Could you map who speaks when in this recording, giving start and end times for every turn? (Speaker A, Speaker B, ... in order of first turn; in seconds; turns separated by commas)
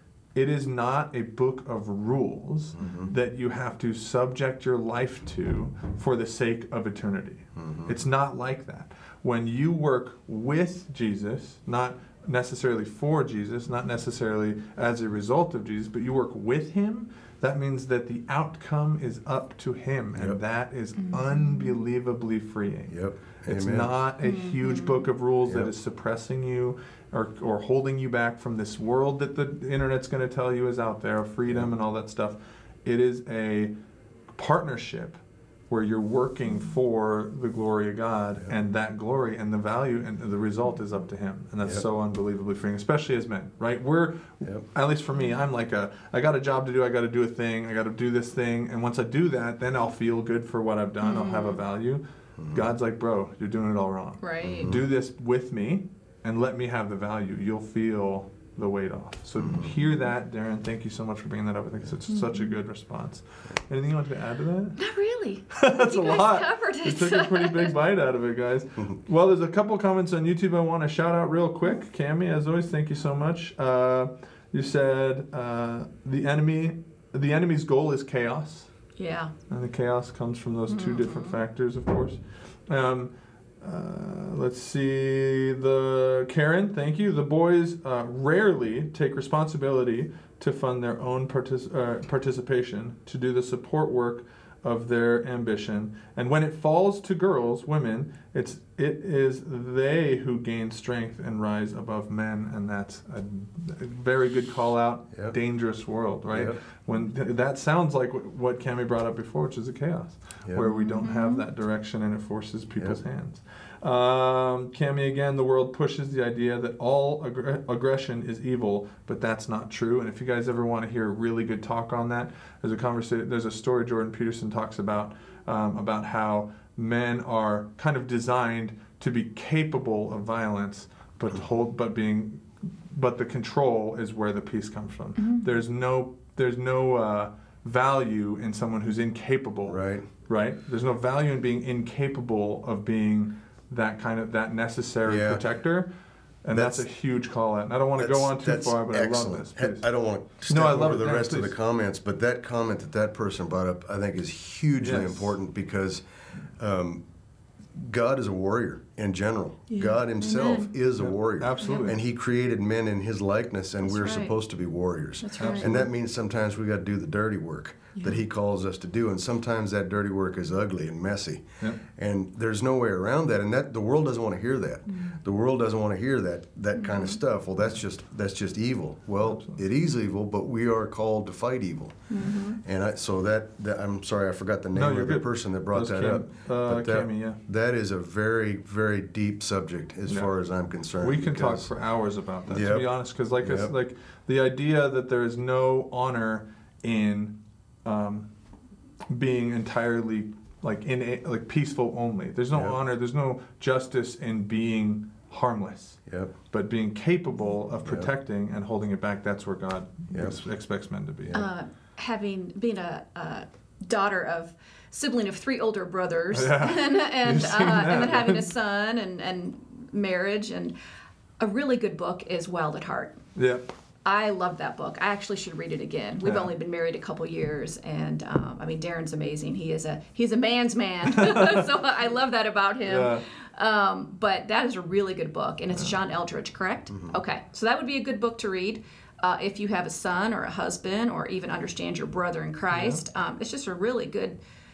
Speaker A: 0.3-33.7, Speaker B: 2.7-3.1, Speaker B: 7.5-7.9, Speaker B: 20.1-20.4, Speaker C: 21.0-21.8, Speaker B: 22.9-23.9, Speaker C: 24.2-25.1, Speaker B: 25.4-25.7, Speaker A: 34.3-64.8, Speaker C: 51.0-51.6, Speaker B: 52.4-52.7, Speaker C: 54.2-54.7, Speaker B: 54.4-54.8, Speaker B: 59.4-59.8, Speaker C: 62.1-62.5, Speaker C: 64.8-67.7, Speaker A: 65.5-78.7, Speaker C: 79.0-79.3, Speaker A: 79.5-145.9, Speaker C: 80.7-81.3, Speaker B: 106.3-106.6, Speaker C: 110.7-111.5, Speaker C: 135.2-135.5, Speaker B: 139.7-140.1, Speaker B: 145.1-145.4, Speaker A: 146.4-149.8, Speaker B: 146.5-146.8, Speaker B: 148.0-156.0, Speaker A: 150.5-151.5, Speaker A: 154.8-155.3, Speaker B: 156.6-157.0, Speaker B: 157.7-191.7, Speaker C: 159.7-160.7, Speaker A: 161.0-162.0, Speaker C: 161.6-161.9, Speaker C: 163.8-164.3, Speaker C: 165.2-165.9, Speaker A: 165.4-165.8, Speaker C: 176.8-177.2, Speaker A: 179.2-179.6, Speaker C: 182.1-182.6, Speaker A: 184.7-187.4, Speaker A: 191.0-198.3, Speaker B: 192.5-192.9, Speaker B: 193.4-193.7, Speaker A: 199.1-211.5, Speaker B: 202.5-202.8, Speaker B: 206.1-206.3, Speaker B: 207.8-208.1, Speaker B: 210.1-210.4, Speaker C: 211.3-220.7, Speaker A: 216.3-218.4, Speaker C: 221.4-223.2, Speaker A: 223.3-223.7, Speaker C: 224.0-244.4, Speaker A: 226.2-226.5, Speaker A: 231.1-231.7, Speaker A: 232.8-233.2, Speaker B: 236.9-237.2, Speaker A: 242.7-243.0